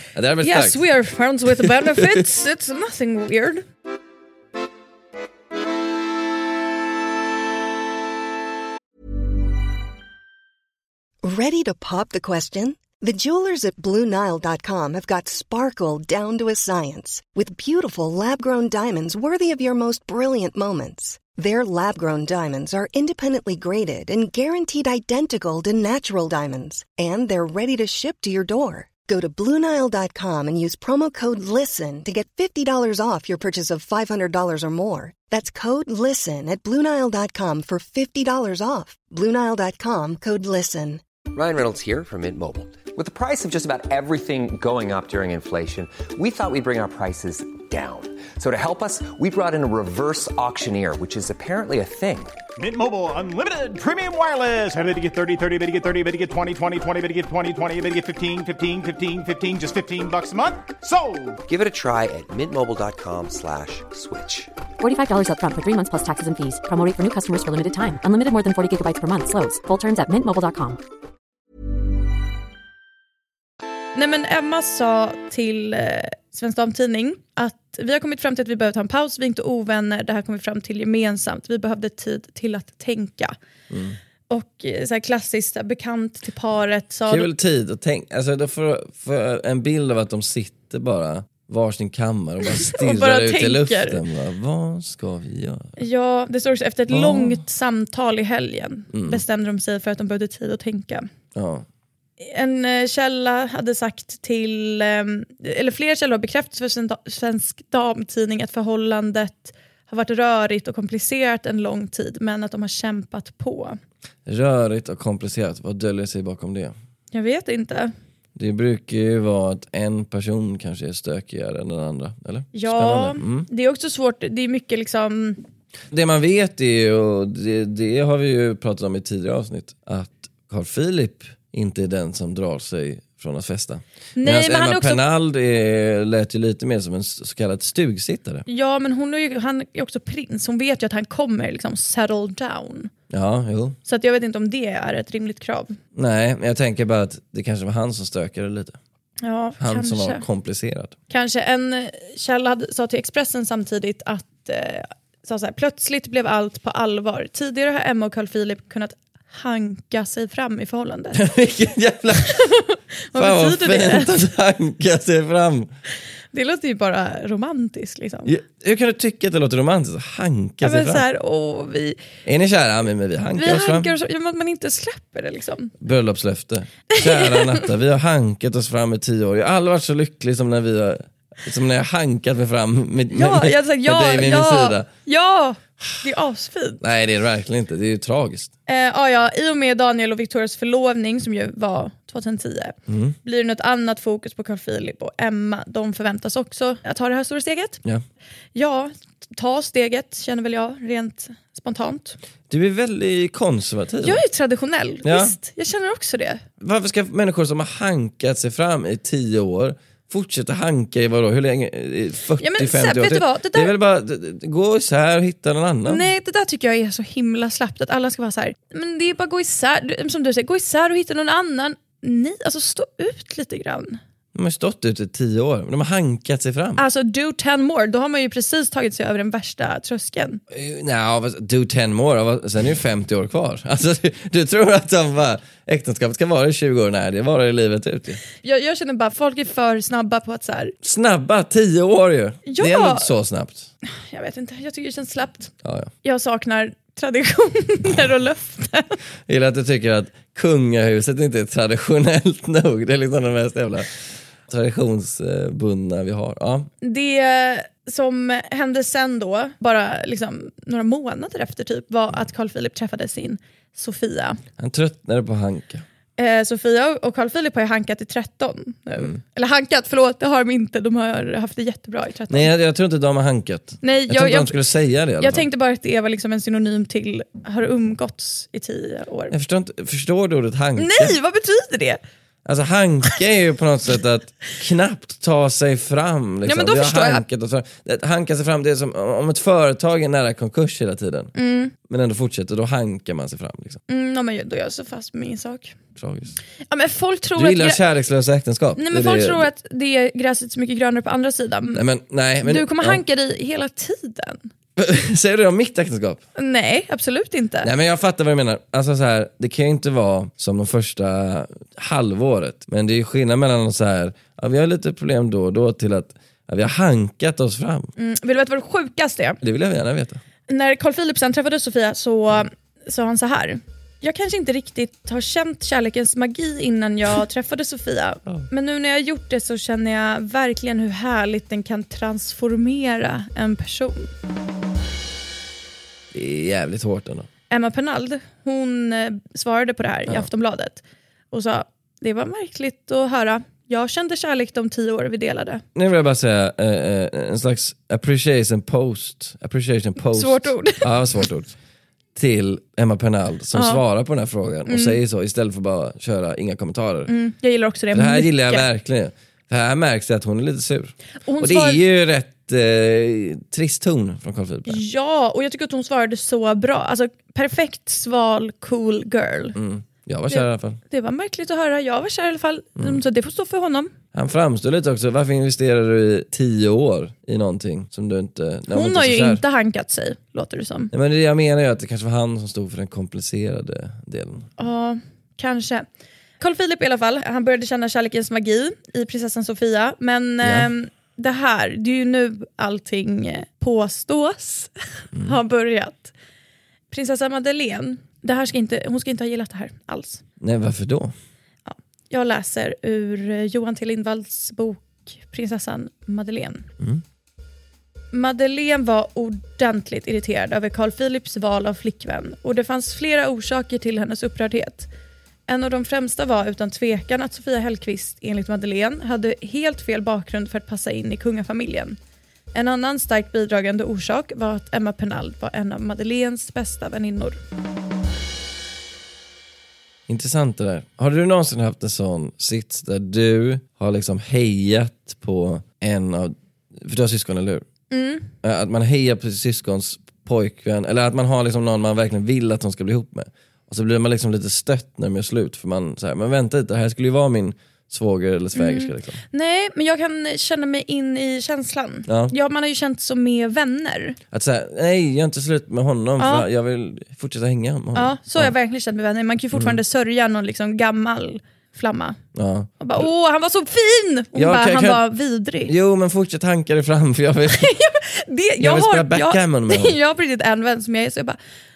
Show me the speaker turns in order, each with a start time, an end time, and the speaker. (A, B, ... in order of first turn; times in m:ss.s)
0:00.1-0:00.8 A
0:00.4-0:03.6 B
0:01.6-0:02.2 A
0:11.2-0:41.0 C
0:41.3-0:52.4 D
0:52.6-1:01.4 E
1:01.4-1:04.5 D
1:04.8-1:10.8 F
1:13.9-1:23.3 B
1:23.7-1:24.0 A
1:24.3-1:27.3 B
1:27.1-1:35.8 A
1:32.4-1:34.0 B
1:35.8-1:41.1 B
1:36.9-1:37.4 A
1:38.9-1:39.2 A
1:41.3-1:41.6 A
1:42.2-1:53.8 B
1:54.2-1:56.7 A
1:57.1-1:57.9 B
1:58.4-2:03.5 A
2:02.5-2:05.4 B
2:05.9-2:18.4 A
2:14.2-2:15.0 B
2:18.5-2:22.9 B
2:23.1-2:23.8 A
2:23.8-2:25.8 B
2:25.9-2:28.8 A
2:29.2-2:30.2 B
2:29.6-2:30.9 A
2:31.1-2:41.2 B
2:41.1-2:42.5 A
2:42.3-2:44.1 B
2:43.2-2:45.7 A
2:46.3-2:48.3 B
2:48.2-2:51.0 A
2:50.6-2:52.0 B
2:52.2-2:53.9 A
2:53.4-2:55.7 B
2:55.8-3:04.9 A
2:56.9-2:57.6 B
3:03.1-3:06.8 B
3:06.8-3:08.5 A
3:08.7-3:17.8 B
3:12.9-3:13.2 A
3:18.5-3:22.2 B
3:22.5-3:24.2 A
3:24.0-3:26.4 B
3:25.0-3:25.3 A
3:26.6-3:36.0 A
3:32.4-3:33.7 B
3:35.8-3:44.0 B
3:44.3-3:46.8 A
3:46.8-3:50.4 B
3:50.5-3:58.2 A
3:58.4-4:00.7 B
4:00.8-4:03.7 A
4:02.5-4:03.1 B
4:03.8-4:05.5 B
4:05.6-4:05.9 A
4:06.0-4:09.0 B
4:09.3-4:16.7 A
4:16.8-4:24.4 B
4:24.6-4:25.8 A
4:26.2-4:32.5 B
4:32.3-4:35.4 A
4:33.8-4:34.6 B
4:35.2-4:39.3 B
4:39.3-4:41.1 A
4:40.8-4:42.0 B
4:42.4-4:51.3 A
4:46.4-4:47.2 B
4:51.4-4:51.7 B
4:51.8-4:53.8 A
4:53.9-4:55.8 B
4:56.0-4:56.4 A
4:56.7-4:57.8 B
4:57.4-4:59.5 A
4:58.8-5:01.8 B
5:01.7-5:03.0 A
5:02.4-5:04.5 B
5:04.8-5:06.2 A
5:06.4-5:07.7 B
5:07.6-5:17.9 A
5:18.0-5:19.4 B
5:19.4-5:20.2 A
5:20.5-5:34.1 B
5:36.1-5:37.3 A
5:37.5-5:45.6 B
5:45.8-5:51.5 A
5:50.0-5:50.9 B
5:52.2-5:57.1 A
5:53.5-5:53.8 B
5:54.7-5:55.0 B
5:57.1-5:58.6 B
5:57.9-6:04.8 A
6:01.2-6:01.8 B
6:04.7-6:09.6 B
6:09.6-6:10.8 A
6:10.3-6:13.9 B
6:14.1-6:19.4 A
6:18.7-6:20.9 B
6:20.9-6:24.5 A
6:24.6-6:25.8 B
6:26.4-6:36.1 B
6:30.4-6:30.7 A
6:36.9-6:40.2 B
6:40.4-6:41.1 A
6:41.6-6:46.7 B
6:48.1-6:54.9 B
6:55.5-7:02.0 B
7:02.5-7:07.4 B
7:10.1-7:17.6 A
7:17.9-7:18.3 B
7:18.4-7:29.2 A
7:28.6-7:34.2 B
7:32.1-7:32.3 A
7:34.3-7:38.5 A
7:36.2-7:36.5 B
7:38.0-7:42.2 B
7:39.5-7:39.8 A
7:42.3-7:43.0 A
7:42.8-7:45.7 B
7:44.3-7:45.0 A
7:45.6-7:47.8 A
7:47.5-7:51.4 B
7:48.6-7:50.0 A